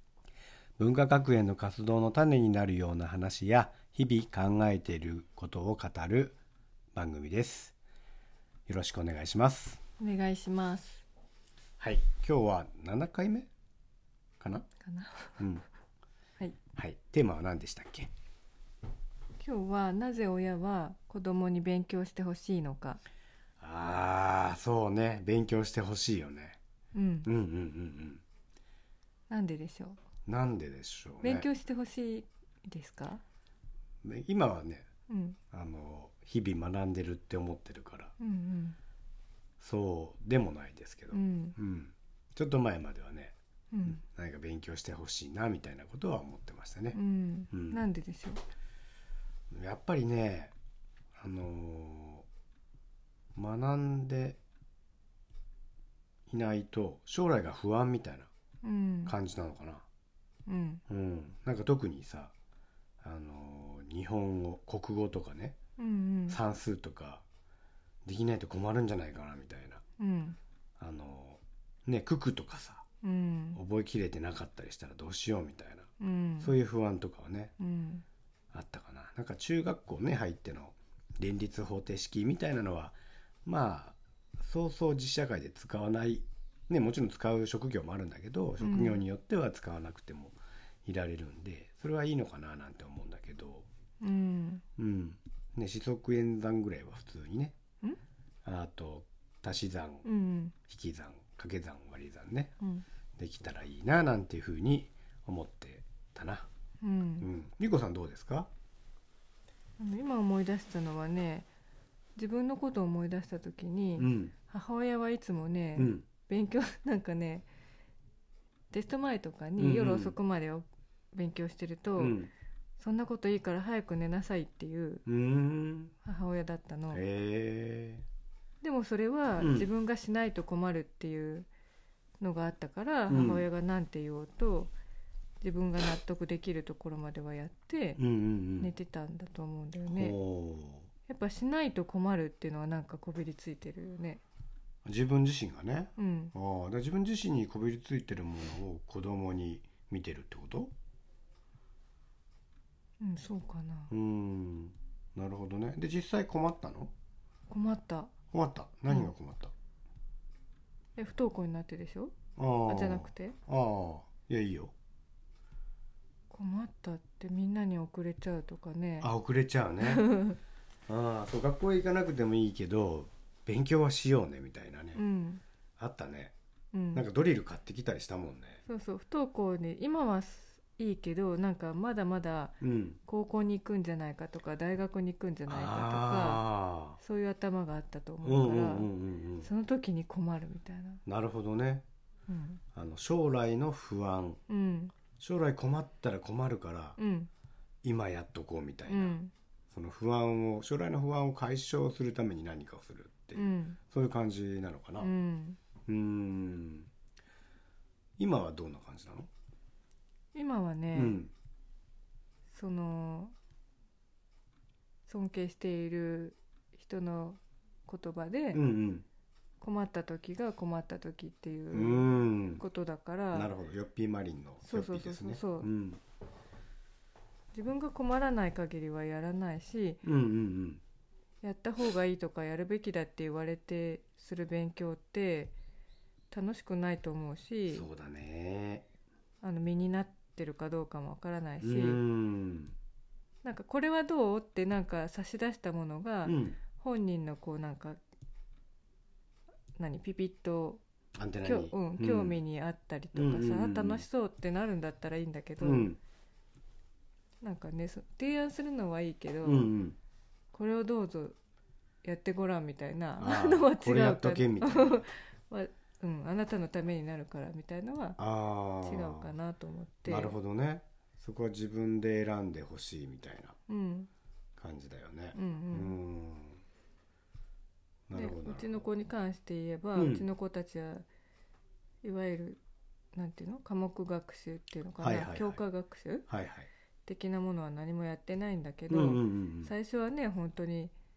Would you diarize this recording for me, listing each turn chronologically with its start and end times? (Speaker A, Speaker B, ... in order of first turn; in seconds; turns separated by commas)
Speaker A: 0.8-6.3, Speaker A: 6.9-7.8, Speaker A: 8.7-9.8, Speaker B: 10.0-11.0, Speaker A: 11.8-13.5, Speaker A: 14.4-14.7, Speaker B: 14.8-15.4, Speaker A: 15.4-15.6, Speaker A: 16.7-18.1, Speaker B: 19.4-23.0, Speaker A: 23.6-26.6, Speaker B: 26.9-27.3, Speaker A: 27.2-28.2, Speaker B: 29.3-30.0, Speaker A: 30.2-31.5, Speaker B: 31.2-33.2, Speaker A: 34.0-34.9, Speaker B: 35.1-35.4, Speaker A: 35.5-38.1, Speaker B: 38.2-38.8, Speaker A: 39.6-43.3, Speaker B: 41.1-41.5, Speaker B: 43.7-44.0, Speaker A: 43.9-47.0, Speaker B: 46.9-48.4, Speaker A: 47.5-47.8, Speaker A: 49.5-50.5, Speaker A: 51.1-52.2, Speaker A: 53.3-54.4, Speaker A: 56.3-58.3, Speaker B: 58.6-59.1, Speaker A: 59.0-59.9, Speaker B: 60.5-60.8, Speaker A: 60.9-62.3, Speaker A: 63.0-65.6, Speaker B: 65.8-66.4, Speaker A: 66.3-67.2, Speaker A: 68.0-69.8, Speaker B: 70.0-70.4, Speaker A: 70.8-72.8, Speaker B: 73.0-73.6, Speaker A: 73.5-75.9, Speaker B: 76.0-76.5, Speaker A: 76.4-77.5, Speaker B: 77.6-78.0, Speaker A: 78.5-93.7, Speaker B: 88.6-89.0, Speaker B: 94.0-94.6, Speaker A: 94.8-97.5, Speaker A: 98.4-100.0, Speaker B: 100.0-100.5, Speaker A: 100.7-102.5, Speaker A: 103.2-106.5, Speaker B: 106.8-107.3, Speaker A: 107.2-108.5, Speaker B: 109.8-111.5, Speaker B: 112.2-117.5, Speaker A: 114.0-114.3, Speaker A: 115.8-116.0, Speaker B: 118.7-122.2, Speaker A: 119.6-120.2, Speaker A: 122.0-122.3, Speaker B: 122.8-125.0, Speaker A: 125.0-125.9, Speaker B: 126.0-127.0, Speaker A: 126.9-128.0, Speaker B: 128.6-131.5, Speaker A: 129.4-129.7, Speaker B: 132.2-134.7, Speaker A: 133.1-133.4, Speaker B: 135.4-138.0, Speaker A: 138.0-138.7, Speaker B: 138.6-140.2, Speaker A: 139.9-140.9, Speaker B: 141.1-144.2, Speaker A: 144.8-150.7, Speaker B: 146.0-146.3, Speaker B: 153.0-153.9, Speaker A: 153.9-156.9, Speaker B: 157.5-158.1, Speaker A: 158.3-159.5, Speaker B: 161.0-162.1, Speaker A: 162.3-164.7, Speaker B: 162.7-163.4, Speaker B: 166.3-169.1, Speaker A: 169.0-170.1, Speaker B: 169.8-170.4, Speaker A: 170.9-175.0, Speaker B: 174.9-175.4, Speaker A: 175.8-176.3, Speaker B: 176.7-177.0, Speaker A: 176.9-178.6, Speaker B: 178.7-186.4, Speaker A: 182.6-183.0, Speaker A: 185.5-187.0, Speaker B: 187.0-188.9, Speaker A: 188.2-189.5, Speaker B: 189.4-191.0, Speaker A: 191.1-191.8, Speaker B: 192.3-192.6, Speaker A: 192.7-194.4, Speaker B: 194.5-194.9, Speaker A: 195.2-197.0, Speaker B: 197.0-197.3, Speaker A: 197.8-199.2, Speaker B: 198.9-199.3, Speaker A: 199.7-205.1, Speaker B: 203.3-203.8, Speaker B: 205.0-205.6, Speaker A: 205.8-206.9, Speaker A: 208.2-209.3, Speaker B: 210.3-211.2, Speaker A: 210.9-211.3, Speaker B: 212.5-213.3, Speaker B: 215.1-218.6, Speaker A: 218.5-219.1, Speaker B: 219.6-223.5, Speaker A: 221.7-222.6, Speaker A: 223.3-226.0, Speaker B: 224.6-225.7, Speaker B: 227.5-230.0, Speaker A: 230.0-230.8, Speaker B: 231.4-235.5, Speaker B: 236.3-237.8, Speaker A: 237.7-238.9, Speaker B: 239.4-242.0, Speaker A: 241.6-242.7, Speaker B: 243.4-248.0, Speaker A: 246.2-246.6, Speaker B: 249.8-250.8, Speaker A: 251.2-252.4, Speaker B: 251.4-255.9, Speaker A: 253.1-254.0, Speaker A: 255.6-256.0, Speaker B: 257.4-259.7, Speaker A: 259.4-260.0, Speaker B: 260.5-261.4, Speaker B: 262.0-268.2, Speaker A: 263.2-265.0, Speaker A: 268.2-269.3, Speaker B: 268.8-270.3, Speaker A: 270.0-273.6, Speaker B: 273.7-274.1, Speaker A: 274.6-276.6, Speaker B: 275.3-276.0, Speaker A: 278.1-278.8, Speaker B: 278.1-281.1, Speaker A: 279.9-280.2, Speaker B: 282.0-282.6, Speaker B: 283.1-286.2, Speaker A: 285.0-285.6, Speaker A: 286.3-286.7, Speaker B: 287.1-290.9, Speaker A: 288.9-289.7